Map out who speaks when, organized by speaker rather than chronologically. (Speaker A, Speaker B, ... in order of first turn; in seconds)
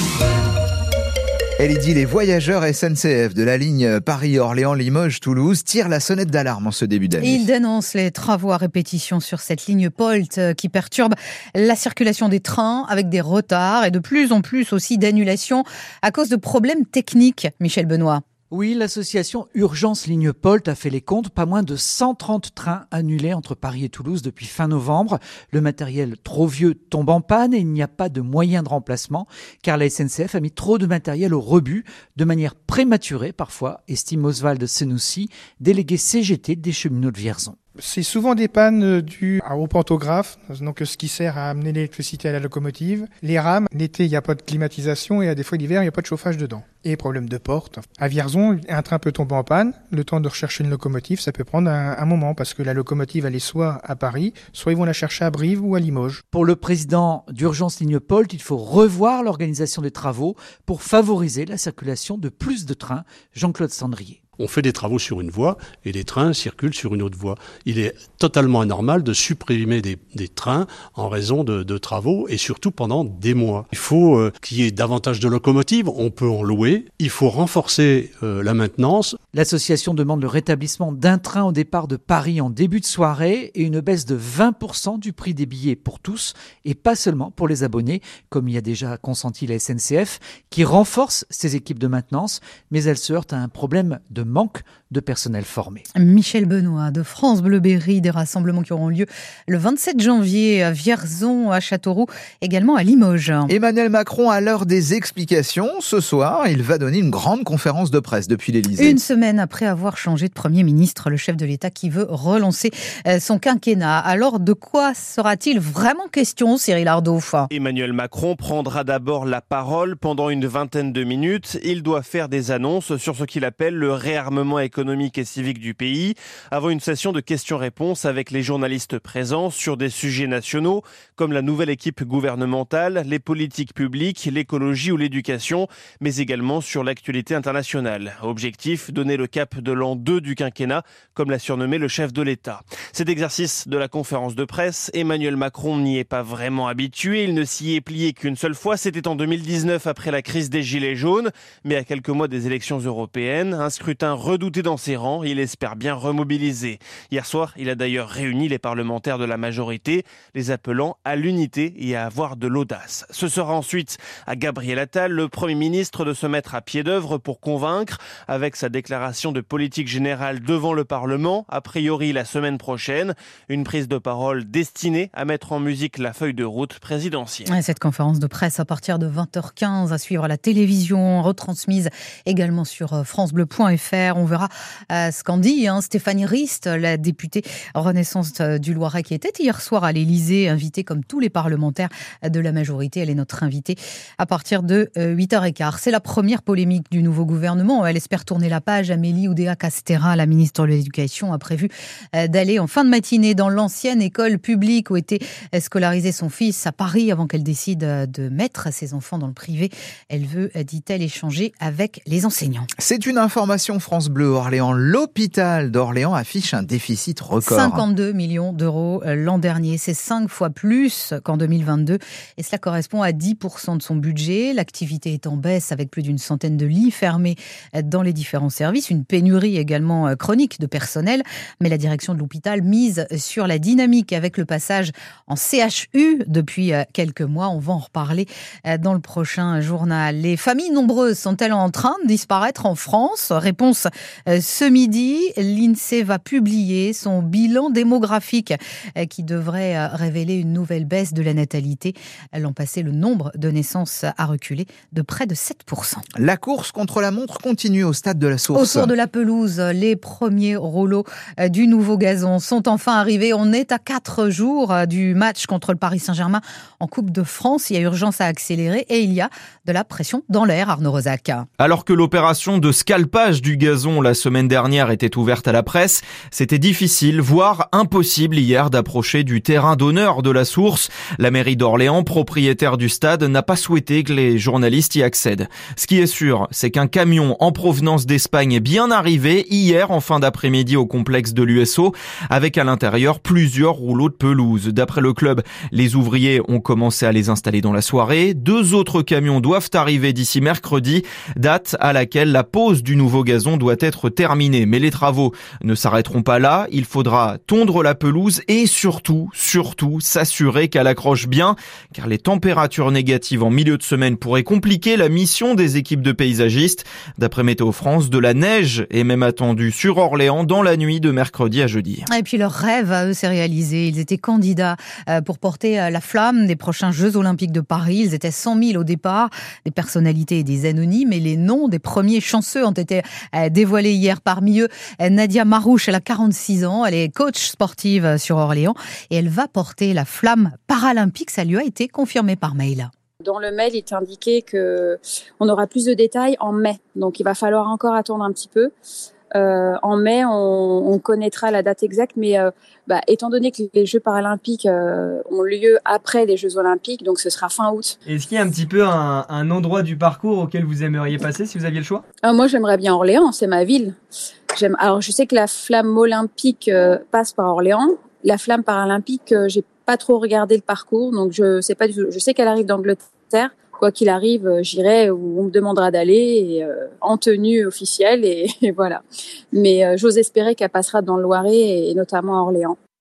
Speaker A: 1.6-7.5, 103.5-109.0, 212.8-217.9, 256.2-258.9
Speaker B: 7.2-18.2, 95.9-103.5, 108.8-117.5, 177.5-212.7, 217.4-256.0, 258.5-271.5, 322.1-342.9
Speaker C: 18.5-37.6, 56.3-64.2, 79.3-95.8
Speaker D: 37.8-56.2
Speaker E: 64.4-79.2
Speaker F: 117.5-177.5
Speaker G: 271.6-322.1
Speaker H: 343.2-348.7, 349.4-358.0, 362.2-363.9, 364.6-379.0, 379.5-382.8
Speaker I: 358.1-362.0